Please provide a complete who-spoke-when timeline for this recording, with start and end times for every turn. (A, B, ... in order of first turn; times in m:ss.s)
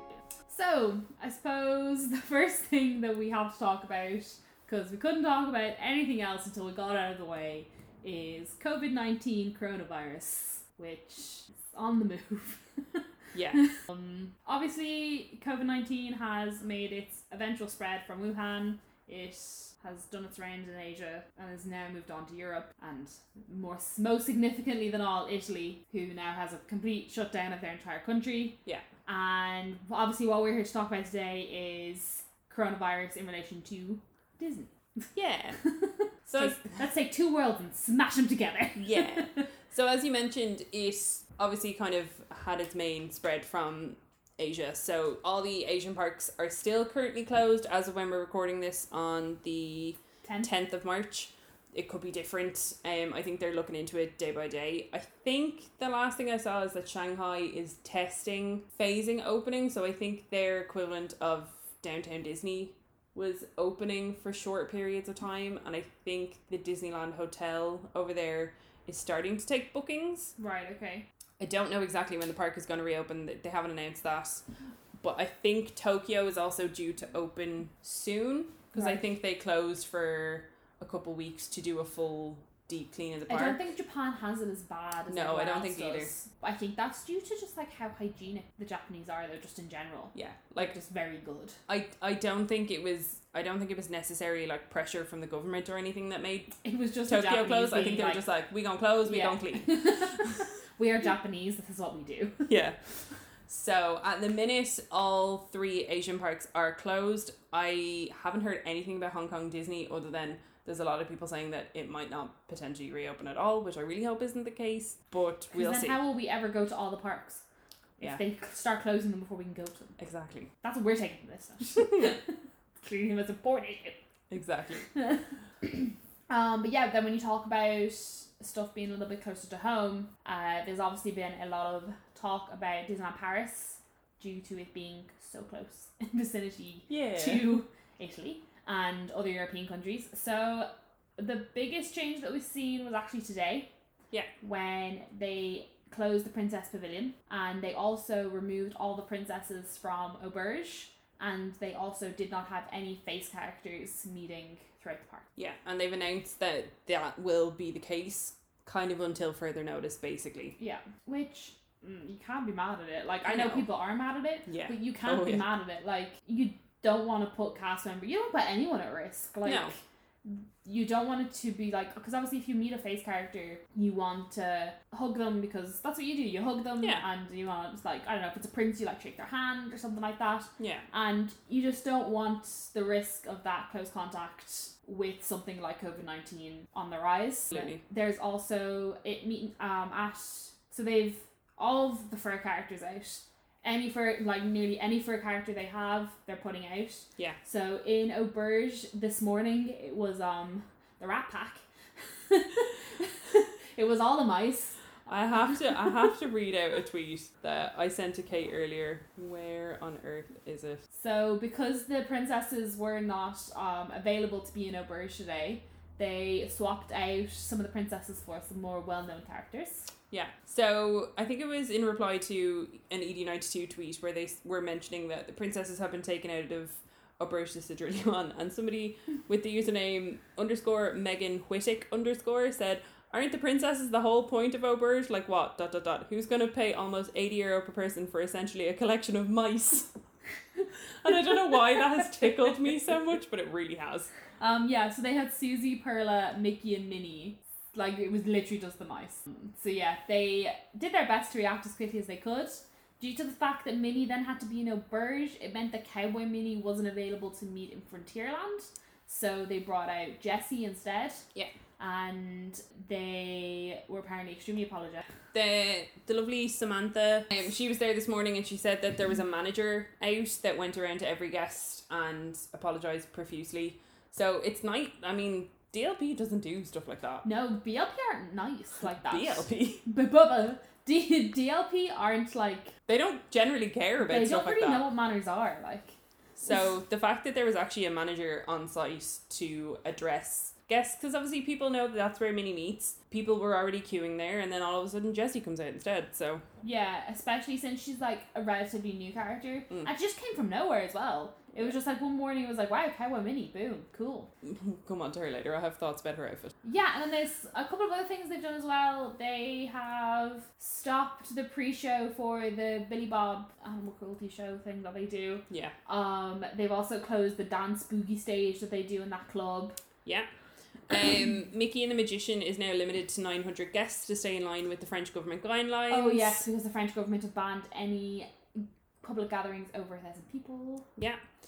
0:00.5-0:39.5 A
0:13.3-0:13.6 B
0:35.1-0:35.6 B
0:36.3-0:36.6 B
0:38.8-1:10.3 B
0:50.2-0:50.5 A
1:10.4-1:11.0 A
1:11.4-1:14.4 B
1:15.0-1:23.6 B
1:18.8-1:19.0 A
1:23.3-1:31.6 A
1:25.1-1:26.1 B
1:30.1-1:30.7 B
1:31.7-1:36.6 B
1:36.6-1:38.2 A
1:37.1-1:40.4 B
1:39.0-1:42.5 A
1:42.5-1:56.0 B
1:55.5-1:57.4 A
1:58.0-2:00.0 A
2:00.0-2:00.5 B
2:00.6-2:04.0 A
2:04.3-2:04.9 B
2:05.0-2:23.7 A
2:16.9-2:17.5 B
2:24.4-2:35.3 A
2:35.4-2:40.6 B
2:40.6-3:24.8 A
2:43.2-2:43.7 B
2:44.5-2:45.4 B
2:49.4-2:49.7 B
3:00.6-3:00.9 B
3:07.5-3:07.8 B
3:25.1-3:30.8 B
3:30.9-3:39.9 A
3:40.1-3:59.9 B
4:01.0-4:04.1 B
4:04.4-4:21.3 A
4:21.8-4:25.1 A
4:25.3-4:37.2 B
4:37.2-4:42.7 A
4:39.1-4:39.8 B
4:42.9-4:44.9 B
4:44.0-4:46.0 A
4:46.4-4:56.4 B
4:56.6-5:04.3 A
5:04.4-5:06.5 B
5:06.6-5:19.8 A
5:15.5-5:15.8 B
5:20.9-5:26.4 B
5:25.9-5:30.9 A
5:31.0-5:31.2 B